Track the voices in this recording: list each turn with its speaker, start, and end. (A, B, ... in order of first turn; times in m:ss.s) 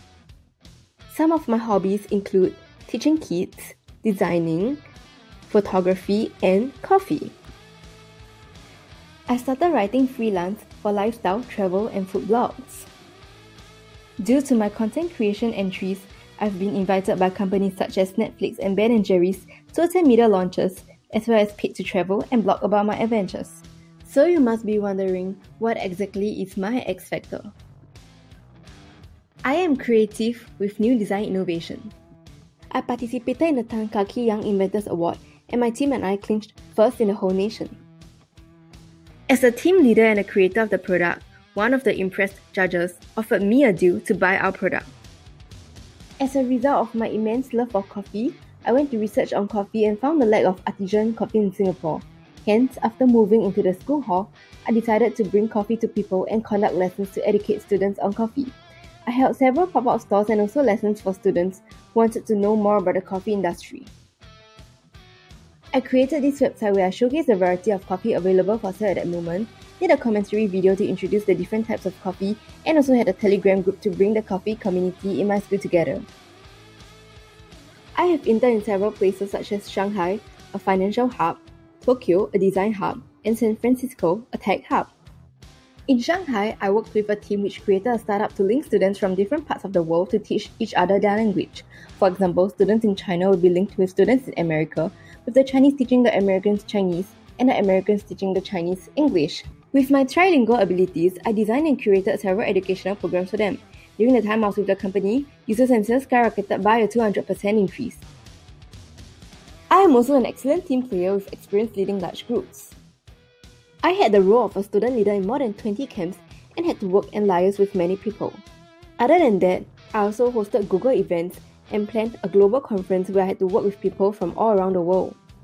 0:01.1-0:04.8 A
0:05.5-0:07.3 A
0:09.3-0:12.9 A
0:14.2-0:27.5 A
0:29.4-0:31.9 A
0:32.7-0:37.8 A
0:39.3-0:44.9 A
0:46.2-0:58.5 A
0:59.0-1:03.9 A
1:05.7-1:16.1 A
1:17.9-1:24.9 A
1:25.9-1:48.0 A
1:49.7-1:52.8 A
1:53.8-1:58.4 A
1:59.0-2:05.2 A